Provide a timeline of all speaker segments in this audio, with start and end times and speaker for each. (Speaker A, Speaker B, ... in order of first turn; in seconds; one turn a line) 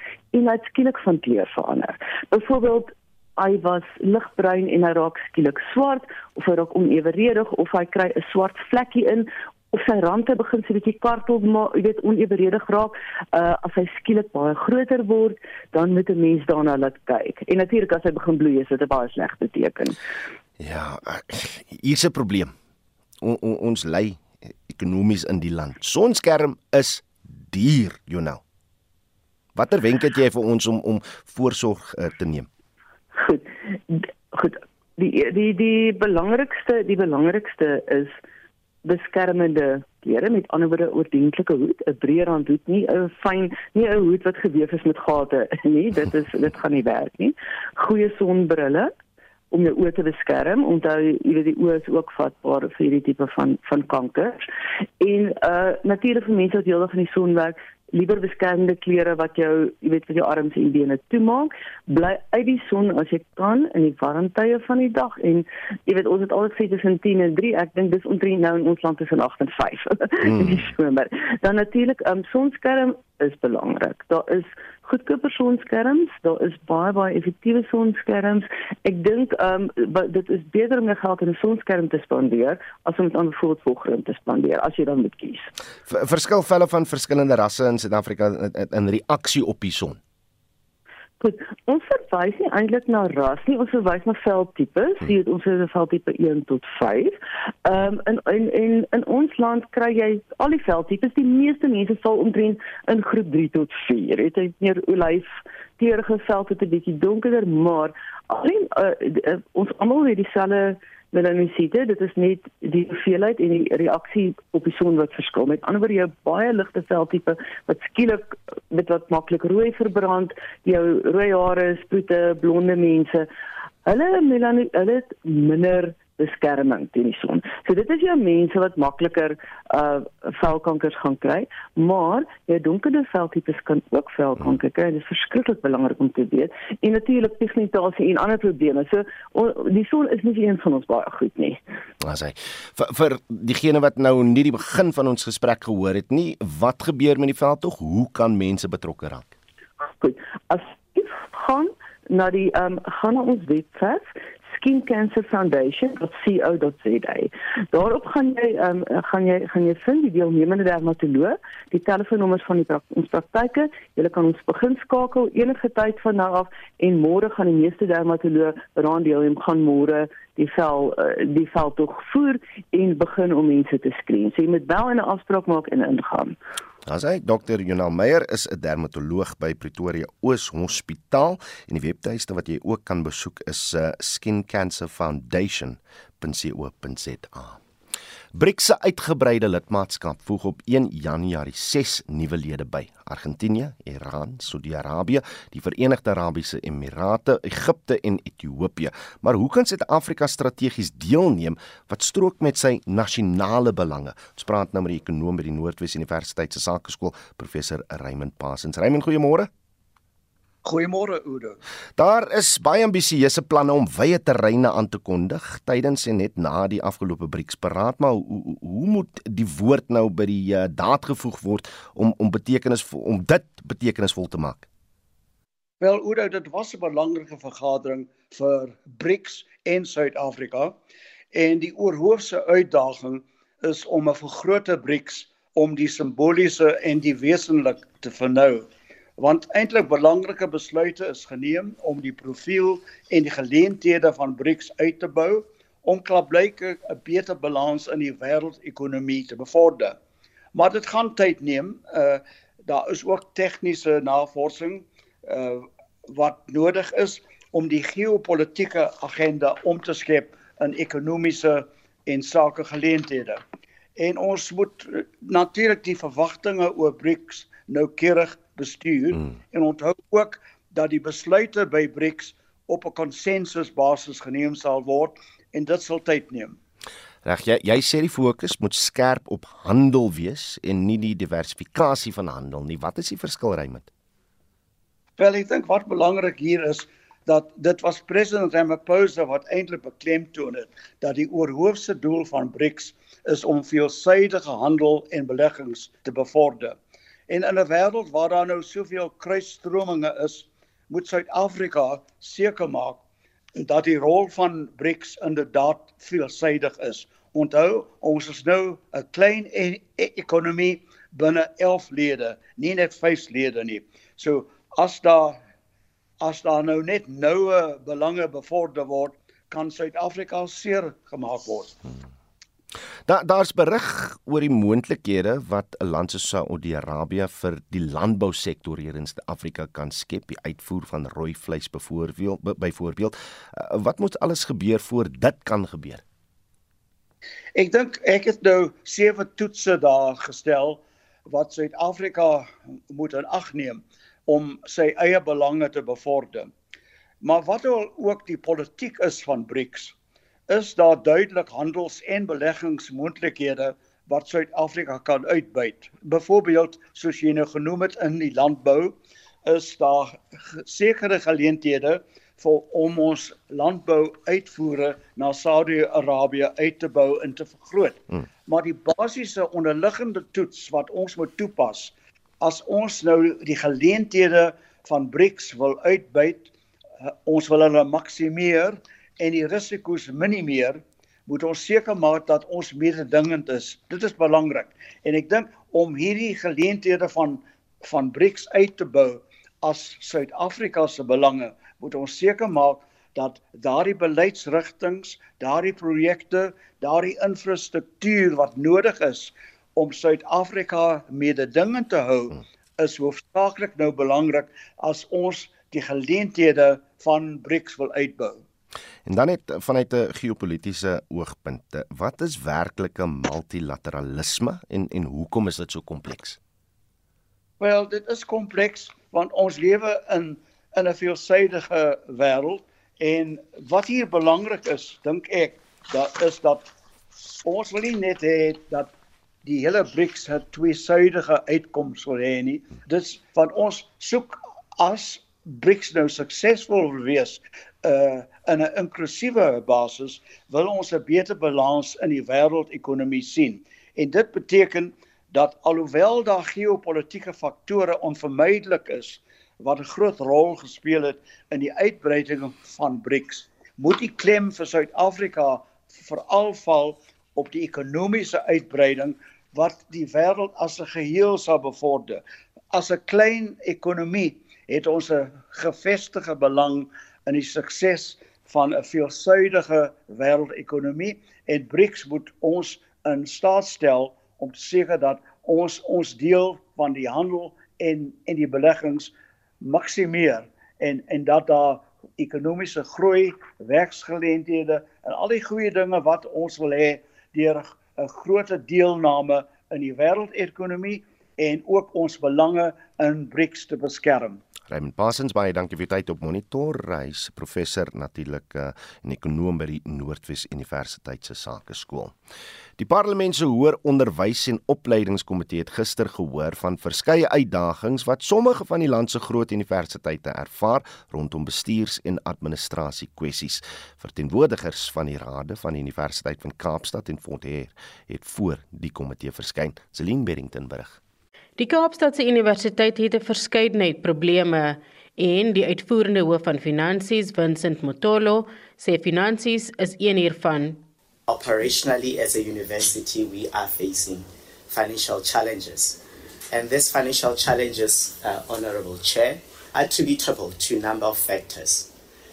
Speaker A: 0.3-20.0
Speaker B: 20.6-22.5
Speaker B: 23.2-28.4
Speaker B: 29.6-32.5
Speaker A: 33.2-38.1
Speaker A: 38.9-48.9
Speaker A: 49.5-54.4
Speaker A: 55.0-85.5
Speaker B: 70.2-70.7
Speaker B: 85.9-90.0
Speaker A: 91.2-97.2
Speaker A: 97.7-123.3
Speaker A: 123.9-141.6
Speaker B: 142.0-149.3
Speaker A: 150.0-176.4
Speaker B: 176.9-187.6
Speaker B: 188.3-209.5
Speaker C: 210.6-211.6
Speaker B: 212.0-224.7
Speaker C: 225.8-230.8
Speaker C: 231.3-250.0
Speaker C: 250.6-263.4
Speaker C: 264.0-276.6
Speaker B: 277.2-283.9
Speaker C: 285.2-296.8
Speaker C: 297.3-303.0
Speaker C: 303.6-315.4
Speaker C: 316.2-321.7
Speaker B: 323.1-336.0
Speaker C: 337.6-346.5
Speaker C: 347.2-349.9
Speaker C: 350.5-358.9
Speaker C: 359.5-376.5
Speaker C: 377.2-408.4
Speaker B: 409.1-416.4
Speaker C: 417.6-426.7
Speaker C: 427.5-428.9
Speaker C: 429.4-462.2
Speaker C: 462.7-479.1
Speaker C: 479.6-494.4
Speaker B: 494.7-502.2
Speaker B: 502.8-521.0
Speaker D: 521.6-530.8
Speaker E: 531.3-536.0
Speaker E: 536.5-541.9